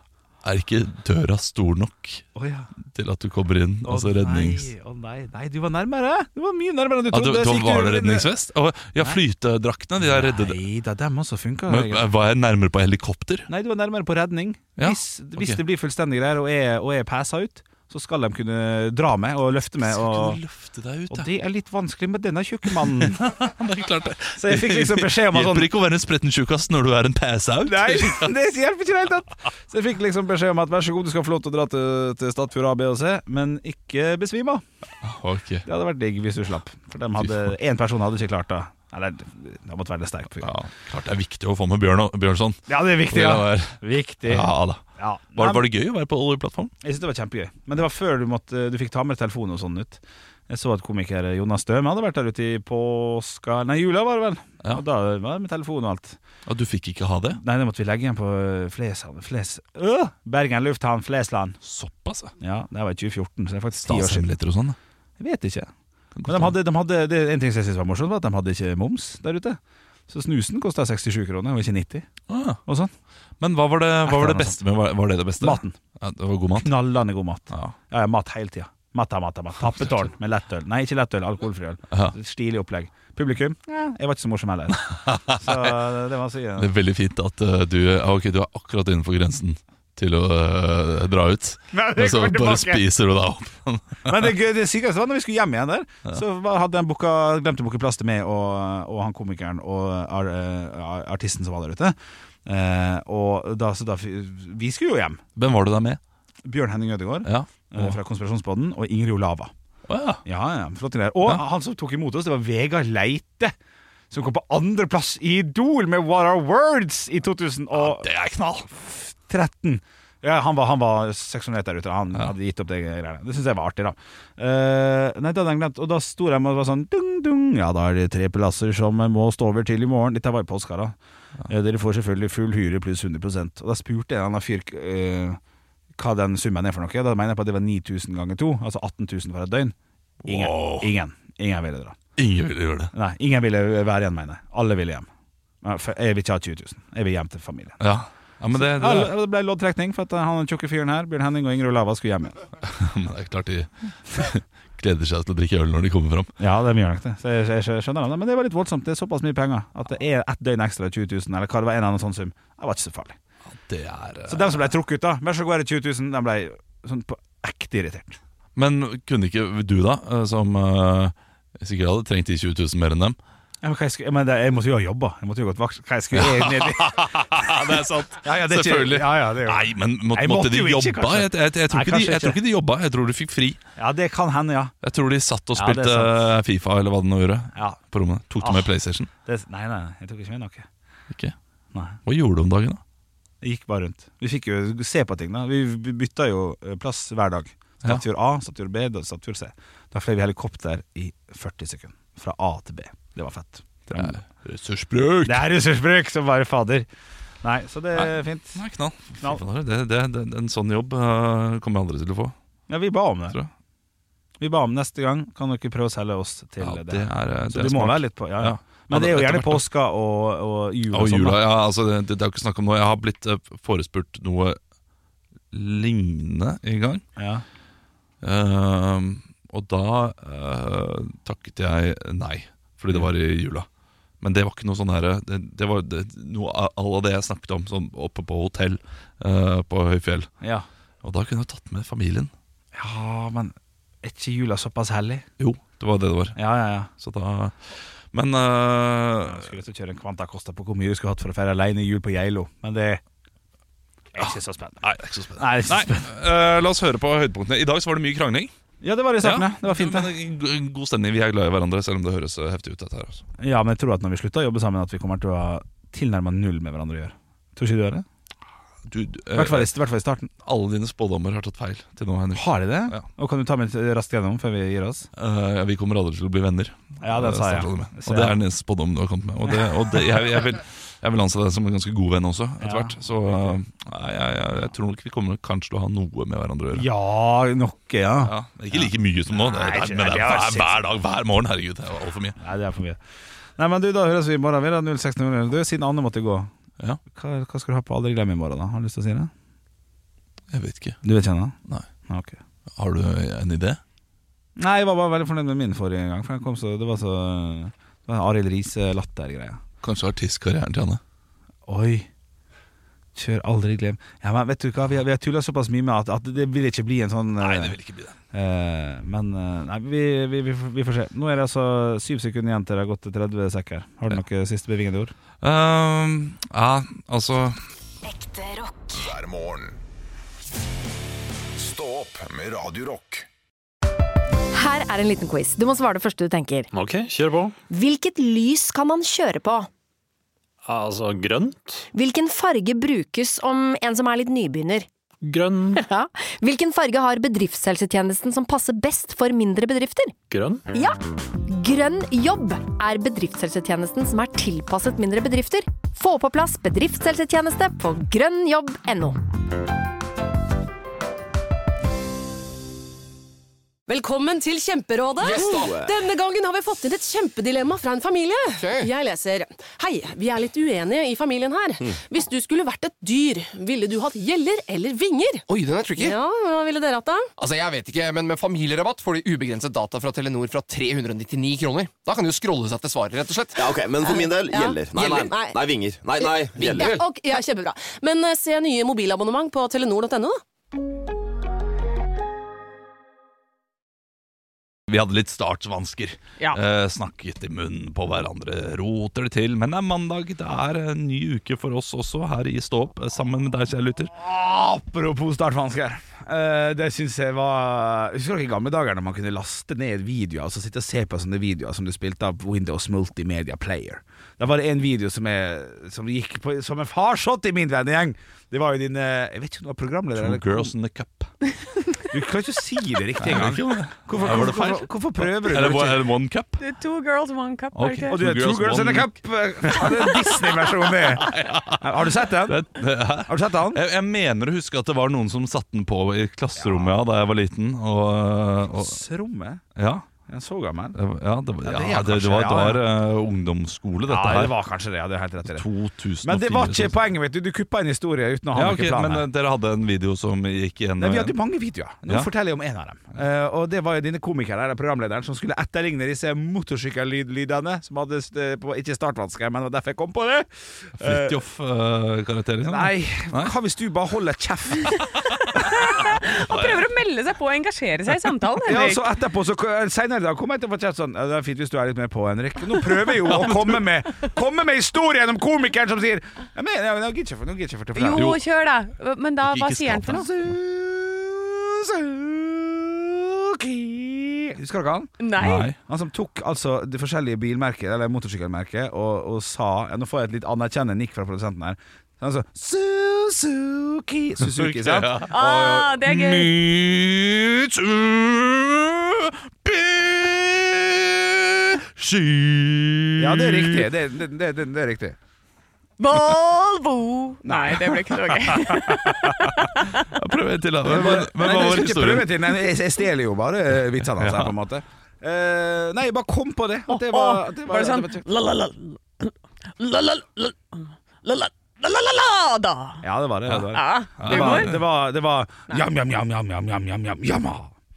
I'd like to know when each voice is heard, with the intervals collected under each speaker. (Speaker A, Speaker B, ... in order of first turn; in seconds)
Speaker A: 0.4-2.2, 2.9-4.7, 7.1-10.6, 11.7-13.5, 14.8-15.6, 19.8-21.3, 22.7-28.3, 35.0-35.6, 37.2-37.5, 40.4-44.8, 45.3-46.7, 56.5-57.4, 61.6-62.3, 63.8-64.8, 66.1-66.5, 72.3-72.6, 73.4-76.7, 84.7-85.8, 86.6-94.3, 105.3-106.0, 107.2-108.0, 109.9-110.2, 117.7-118.7, 140.2-140.9, 142.2-142.9, 147.8-149.1, 152.6-156.3, 163.5-164.6, 168.5-173.2, 176.1-183.6, 184.8-189.1, 191.1-191.3, 192.0-192.8, 203.9-205.5, 207.9-212.3, 216.6-219.7, 220.9-224.6, 225.5-227.0, 228.2-233.7, 234.2-240.3, 241.0-242.3, 245.4-246.4, 246.9-249.5, 254.2-258.5, 259.2-263.2, 268.8-269.7, 270.4-273.0, 275.1-286.9, 288.2-292.4, 300.5-301.0, 302.7-303.8, 309.8-311.0, 317.4-318.1, 325.4-327.6, 394.9-404.1, 420.1-421.3, 423.2-426.6, 427.7-439.0, 439.7-440.1, 440.9-444.5, 445.4-447.0, 448.5-451.4, 461.0-463.5, 466.0-466.9, 473.2-473.9, 478.1-478.4, 479.4-480.6, 485.4-485.8, 494.4-503.9, 510.0-512.5, 514.0-514.5, 524.2-524.8
Speaker B: 2.3-2.7, 3.8-8.3, 10.0-12.1, 13.5-20.4, 21.1-23.2, 24.4-25.7, 27.6-34.6, 35.6-40.5, 42.7-45.6, 46.8-56.2, 57.4-61.6, 62.4-64.3, 65.2-65.7, 66.2-72.1, 72.7-72.9, 74.0-74.6, 75.4-75.8, 76.6-86.7, 91.7-92.8, 94.0-101.9, 102.5-105.2, 106.4-109.5, 110.2-113.5, 114.1-118.1, 118.7-130.9, 131.5-135.4, 135.9-139.7, 140.2-142.0, 142.9-145.1, 145.6-147.8, 148.5-152.4, 156.4-163.2, 164.3-168.2, 173.6-182.4, 183.8-184.7, 185.5-186.2, 187.5-187.8, 188.4-188.7, 189.2-190.7, 193.4-204.2, 205.2-206.9, 207.4-208.6, 212.7-213.4, 214.4-221.4, 227.2-227.4, 240.4-240.7, 242.7-245.2, 246.3-246.9, 249.2-253.0, 254.1-256.1, 258.8-260.1, 263.4-268.0, 269.3-270.3, 272.3-275.1, 277.0-278.4, 282.6-283.5, 286.7-290.8, 292.4-293.0, 293.6-296.5, 297.1-299.3, 301.0-301.5, 302.1-302.4, 304.6-309.6, 311.6-312.1, 313.1-317.8, 318.3-325.1, 404.1-420.7, 422.1-426.0, 428.1-432.6, 433.2-433.8, 436.6-436.9, 438.7-439.6, 440.3-441.0, 441.6-442.8, 444.1-445.6, 446.2-449.2, 451.0-461.4, 462.6-465.0, 468.6-478.3, 480.1-485.2, 485.7-495.9, 503.2-505.2, 507.4-509.5, 510.9-518.2, 523.0-527.7
Speaker C: 328.4-328.6, 334.5-336.7, 337.7-339.7, 341.9-344.9, 345.7-350.1, 350.7-359.2
Speaker D: 328.9-329.8, 331.6-333.3
Speaker E: 336.7-337.5, 340.6-341.9, 345.2-345.8, 350.3-350.7
Speaker F: 363.9-375.4, 375.9-377.3, 384.0-385.6, 386.2-390.4
Speaker G: 365.2-365.9, 368.6-368.9, 375.5-376.2, 377.4-383.6, 386.6-387.0
Speaker H: 383.6-387.0
Speaker I: 426.6-428.2, 465.5-469.0, 477.9-480.2, 485.2-485.7, 495.3-496.6, 506.0-510.1, 516.9-523.0, 523.7-524.7